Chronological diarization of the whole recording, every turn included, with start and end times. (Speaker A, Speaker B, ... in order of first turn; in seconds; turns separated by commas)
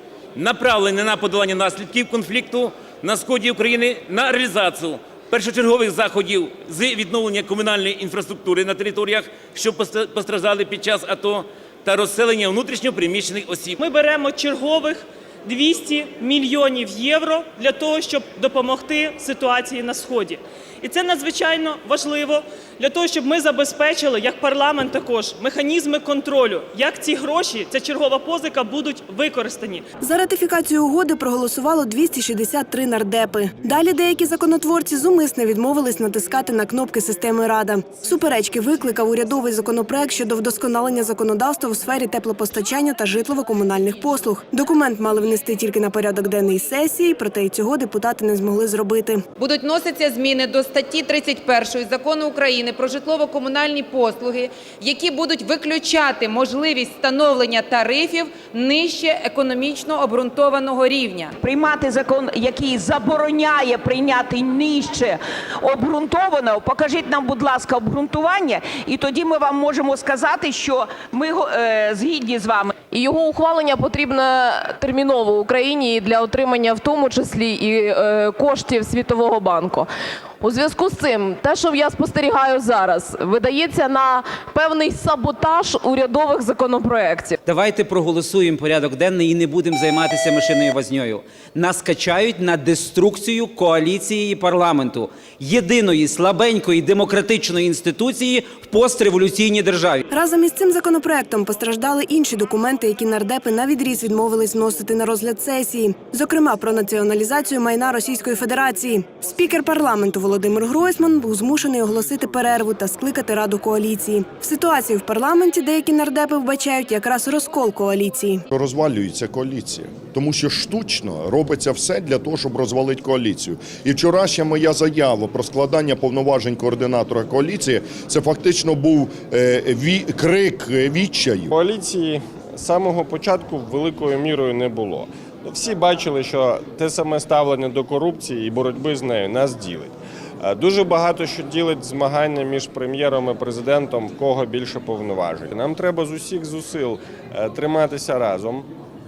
Speaker A: 0.3-13.8, Speaker B: 13.8-29.8, Speaker C: 30.0-49.2, Speaker D: 49.4-61.3, Speaker E: 61.4-72.7, Speaker F: 72.9-79.9, Speaker F: 80.4-87.4, Speaker G: 87.4-100.0, Speaker C: 100.1-118.4, Speaker H: 118.5-131.5, Speaker I: 131.5-148.7